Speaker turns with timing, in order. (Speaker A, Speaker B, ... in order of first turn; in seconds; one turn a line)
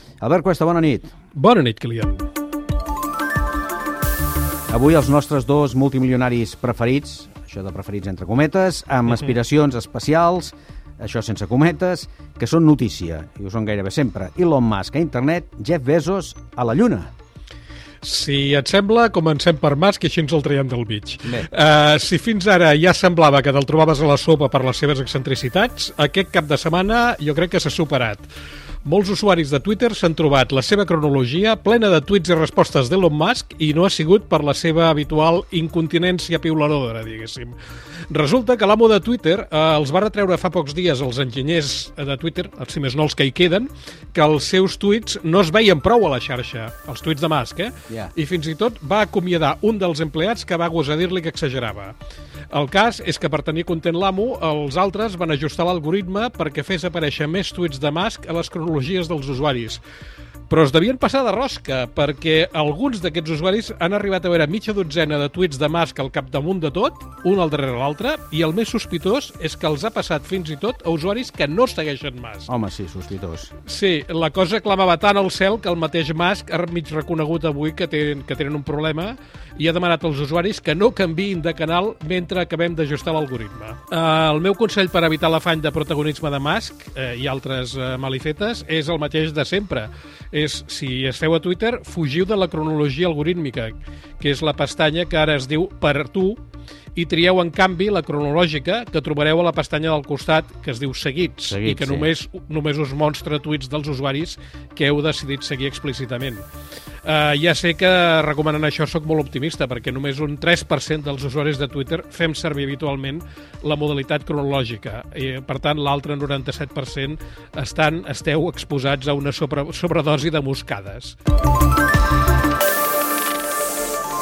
Speaker A: 0.2-1.1
Speaker B: 1.3-2.2
Speaker A: 4.7-17.1
Speaker B: 18.0-28.3
Speaker B: 28.8-37.6
Speaker B: 38.1-51.9
Speaker B: 52.5-59.8
Speaker B: 60.5-72.5
Speaker A: 72.5-73.5
Speaker B: 73.7-96.4
Speaker B: 97.0-106.4
Speaker A: 101.5-102.1
Speaker B: 107.0-121.2